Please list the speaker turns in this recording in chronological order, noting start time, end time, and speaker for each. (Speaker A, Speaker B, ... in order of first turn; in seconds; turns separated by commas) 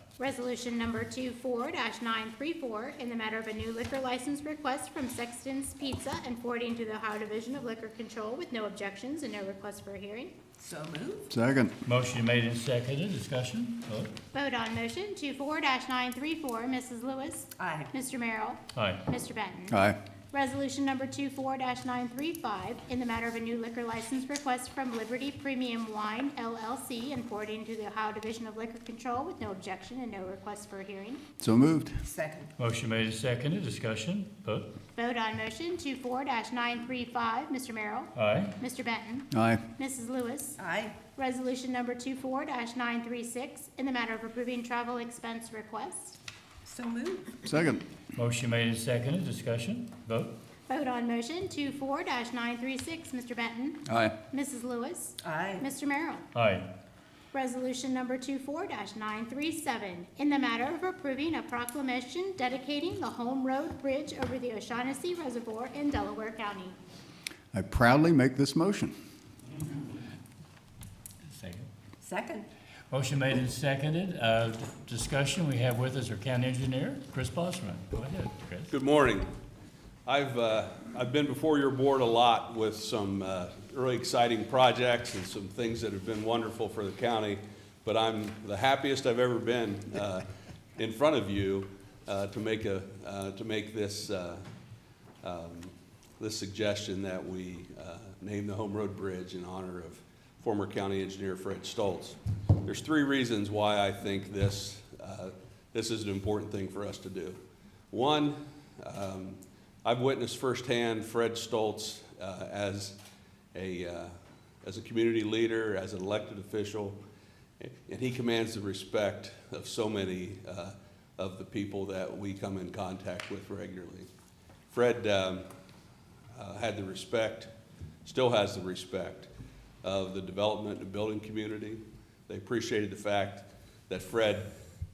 Speaker A: 0.2-10.3, Speaker B: 10.6-11.3, Speaker C: 11.3-11.7, Speaker D: 11.8-14.1, Speaker A: 14.3-19.8, Speaker B: 17.6-17.9, Speaker D: 18.7-19.0, Speaker C: 19.7-20.0, Speaker A: 20.3-31.2, Speaker C: 31.4-32.0, Speaker B: 32.1-32.5, Speaker D: 32.6-34.7, Speaker A: 35.0-40.6, Speaker D: 38.1-38.5, Speaker C: 39.3-39.6, Speaker B: 40.6-41.0, Speaker A: 41.1-46.2, Speaker B: 46.6-47.4, Speaker C: 47.5-47.8, Speaker D: 48.1-50.3, Speaker A: 50.7-56.3, Speaker C: 53.9-54.1, Speaker B: 55.2-55.6, Speaker D: 56.3-56.7, Speaker A: 57.3-66.8, Speaker C: 67.5-68.9, Speaker D: 71.3-71.7, Speaker B: 72.0-72.5, Speaker D: 72.9-78.7, Speaker E: 78.7-79.3, Speaker E: 80.0-90.2, Speaker E: 90.8-94.4, Speaker E: 95.2-107.4, Speaker E: 107.9-113.0, Speaker E: 113.5-117.0, Speaker E: 117.6-124.1, Speaker E: 124.7-125.5, Speaker E: 126.3-127.5, Speaker E: 128.0-129.3, Speaker E: 129.8-134.5